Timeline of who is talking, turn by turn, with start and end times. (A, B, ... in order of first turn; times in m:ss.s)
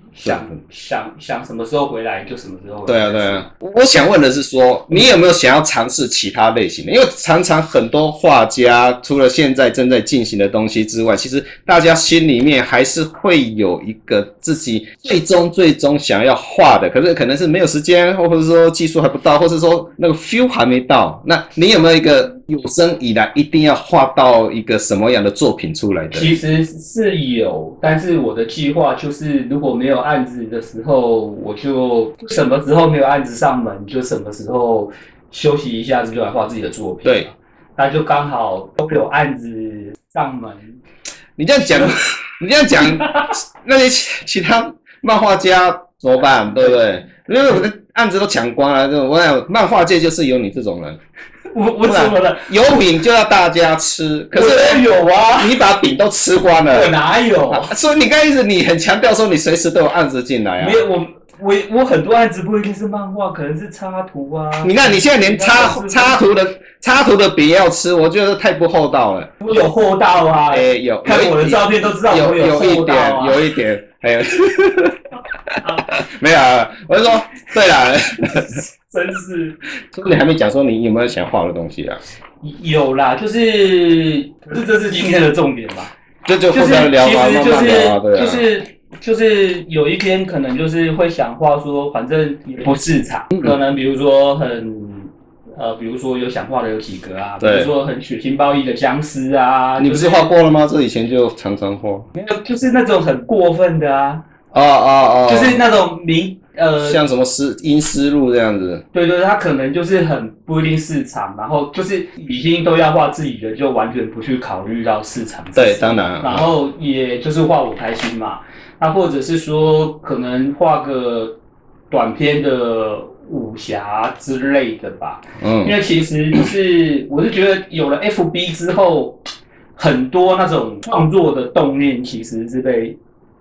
0:00.2-0:03.5 A
0:02.8-0:26.3 B
0:26.1-0:40.8 A
0:37.0-0:37.3 B
0:41.4-0:51.0 B
0:41.7-0:42.0 A
0:42.8-0:43.3 A
0:51.5-0:52.5 A
0:51.8-0:56.9 B
0:54.3-0:55.5 A
0:56.7-0:57.7 A
0:57.5-1:00.8 B
1:00.6-1:06.2 A
1:04.6-1:09.3 B
1:09.4-1:13.4 A
1:10.5-1:18.6 B
1:18.4-1:19.6 A
1:19.9-1:22.0 B
1:22.4-1:25.9 A
1:26.2-1:28.4 B
1:26.5-1:40.3 A
1:37.4-1:37.7 B
1:39.8-1:42.1 B
1:42.1-1:44.2 A
1:44.5-1:45.6 B
1:45.2-1:47.0 A
1:46.8-1:48.8 B
1:48.9-2:01.4 A
1:55.6-1:56.5 B
2:01.9-2:09.2 A
2:05.4-2:05.7 B
2:09.8-2:13.0 A